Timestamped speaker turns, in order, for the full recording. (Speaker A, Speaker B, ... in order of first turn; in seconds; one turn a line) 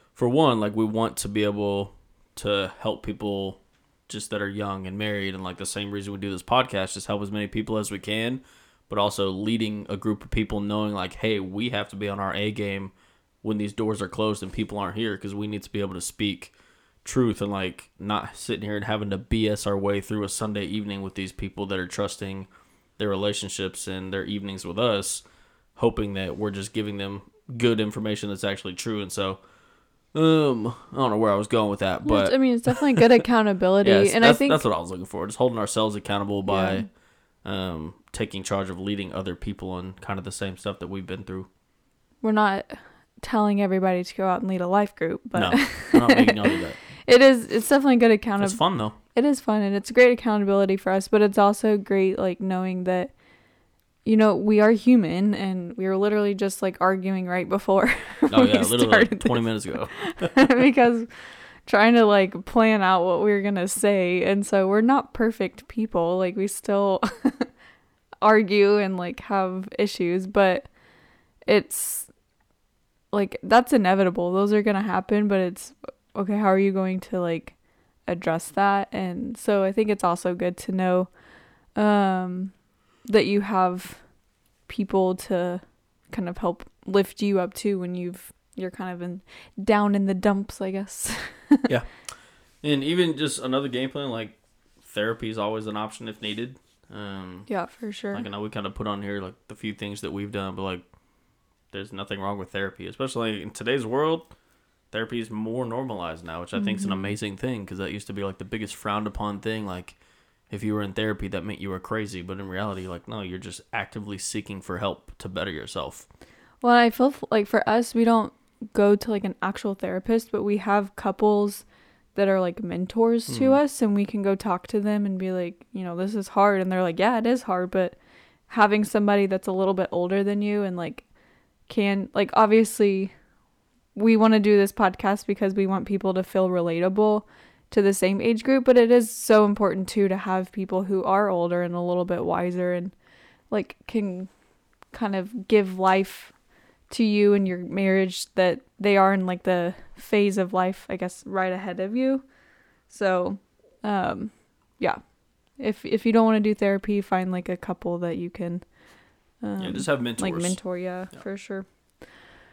Speaker A: 0.1-25.2
Speaker A: 25.8-29.4
Speaker A: 30.1-33.0
Speaker B: 32.0-34.6
Speaker A: 33.8-36.9
Speaker B: 36.5-36.9
Speaker A: 37.4-41.5
Speaker B: 42.2-53.1
Speaker A: 45.4-46.8
Speaker A: 48.4-49.0
Speaker B: 54.0-67.5
Speaker A: 58.3-60.5
Speaker B: 68.2-70.7
Speaker B: 71.4-72.1
Speaker B: 73.1-81.1
Speaker B: 81.7-84.1
Speaker B: 84.7-91.7
Speaker A: 91.7-92.0
Speaker A: 92.6-97.6
Speaker B: 97.5-98.3
Speaker A: 98.1-100.8
Speaker A: 101.7-104.3
Speaker A: 104.9-110.0
Speaker B: 106.6-107.1
Speaker A: 110.5-116.1
Speaker B: 116.6-128.0
Speaker A: 123.3-123.6
Speaker B: 128.5-131.1
Speaker B: 131.7-133.1
Speaker B: 133.9-143.0
Speaker B: 143.5-144.3
Speaker B: 144.9-146.4
Speaker B: 146.9-152.3
Speaker B: 152.9-158.7
Speaker B: 159.4-161.7
Speaker A: 159.6-161.2